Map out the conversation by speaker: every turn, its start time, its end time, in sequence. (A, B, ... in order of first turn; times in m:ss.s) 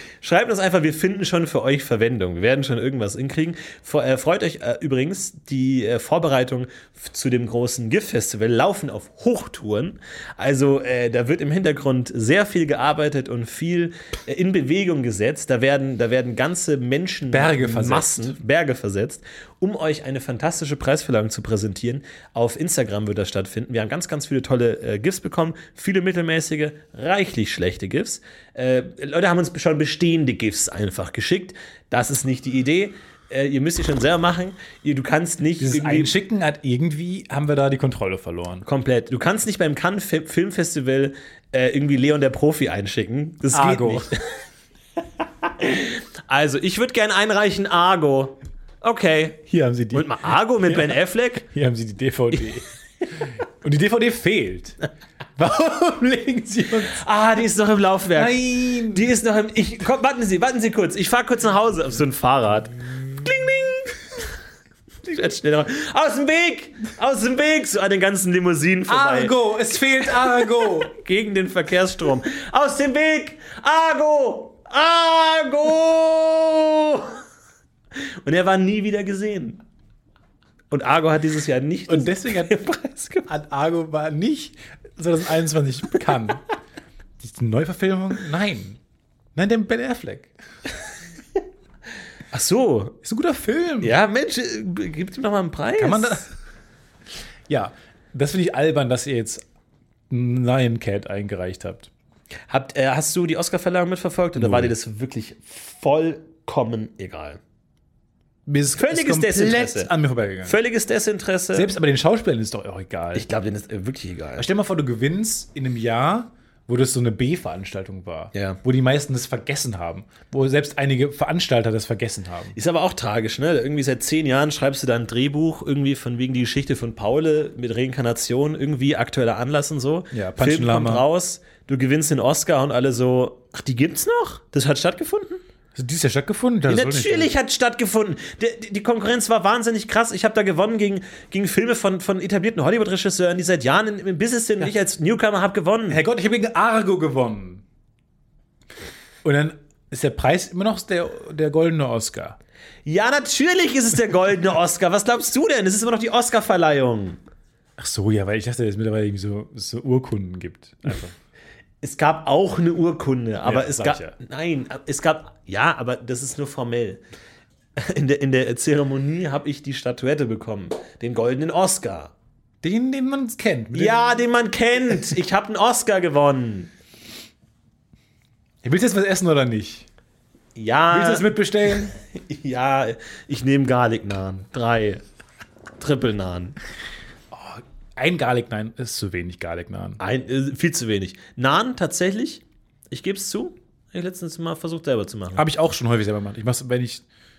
0:00.2-0:36.1 A
0:17.3-0:18.3 B
0:35.6-0:38.6 B
0:38.6-0:44.2 A
0:43.5-0:44.1 B
0:45.4-0:49.4 A
0:49.5-0:50.1 B
0:49.9-0:51.4 A
0:50.6-0:54.8 B
0:55.4-0:57.0 B
0:56.8-1:04.0 A
0:58.1-0:59.1 B
1:05.0-1:09.3 A
1:08.9-1:10.9 B
1:10.2-1:17.2 A
1:18.2-1:19.6 A
1:20.7-1:23.3 A
1:21.9-1:22.5 B
1:23.3-1:26.4 B
1:27.2-1:28.8 B
1:29.3-1:30.3 B
1:32.3-1:33.0 A
1:33.0-1:34.0 B
1:33.8-1:36.2 A
1:35.8-1:36.3 B
1:37.5-1:39.4 B
1:40.1-1:41.9 B
1:42.5-1:47.4 A
1:44.4-1:44.7 B
1:48.4-1:50.6 B
1:48.7-1:49.9 A
1:50.4-1:51.7 A
1:51.5-1:53.2 B
1:53.1-1:54.4 A
1:54.4-2:02.6 B
1:58.3-1:58.6 A
2:02.5-2:15.4 A
2:10.1-2:11.0 B
2:15.7-2:17.3 B
2:16.7-2:26.0 A
2:25.9-2:27.6 B
2:29.2-2:32.4 B
2:32.8-2:37.2 A
2:37.8-2:41.1 B
2:41.8-2:47.0 A
2:43.4-2:44.1 B
2:47.8-2:52.1 A
2:52.6-2:54.2 B
2:53.7-2:56.7 A
2:58.6-2:59.8 B
3:00.5-3:05.0 A
3:00.9-3:01.9 B
3:05.8-3:06.6 A
3:07.3-3:10.0 B
3:10.0-3:15.4 A
3:15.3-3:17.0 B